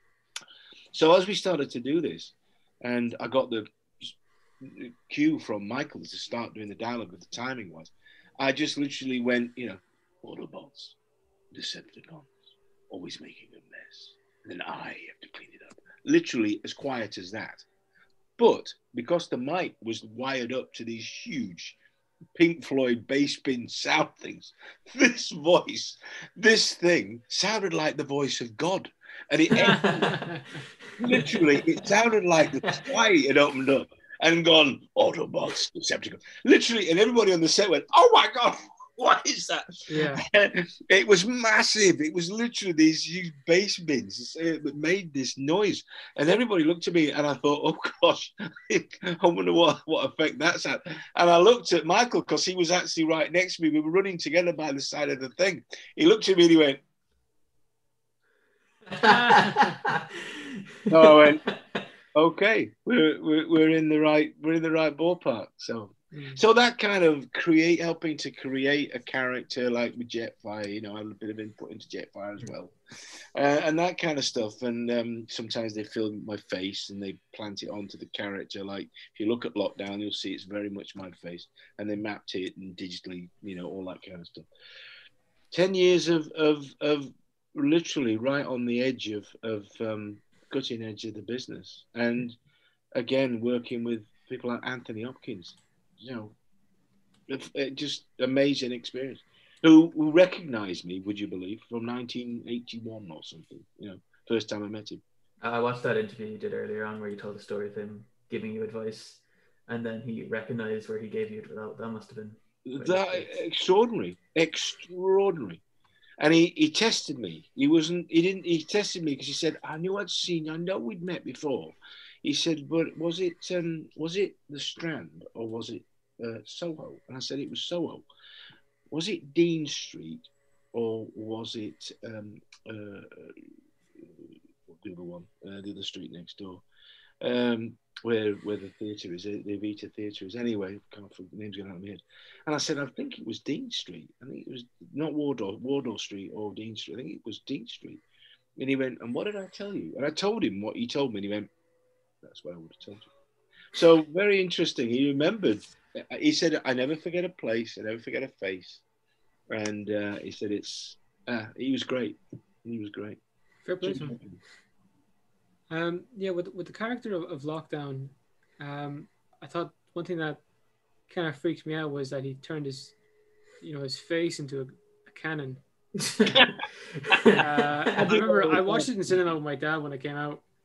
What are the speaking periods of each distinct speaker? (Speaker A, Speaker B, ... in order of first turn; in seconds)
Speaker A: 0.9-11.0, 11.5-12.4, 12.9-17.6, 18.4-21.8, 22.4-30.3, 31.0-56.8, 60.9-61.5, 62.1-72.7, 73.3-84.5, 85.5-92.4, 93.0-96.3, 97.3-105.0, 112.7-115.6, 116.2-128.1, 128.9-133.4, 134.0-136.6, 137.2-148.0, 148.6-151.5, 152.2-153.1, 153.7-158.8, 159.5-163.2, 163.8-164.4, 177.9-178.9
Speaker B: 29.7-30.2, 58.9-60.5, 105.4-113.4, 176.0-176.5, 177.0-177.4
Speaker C: 29.9-30.4, 39.9-40.2, 59.0-59.7, 66.1-66.4, 163.6-164.2, 165.7-170.4, 171.1-172.9, 173.6-175.6, 177.3-180.4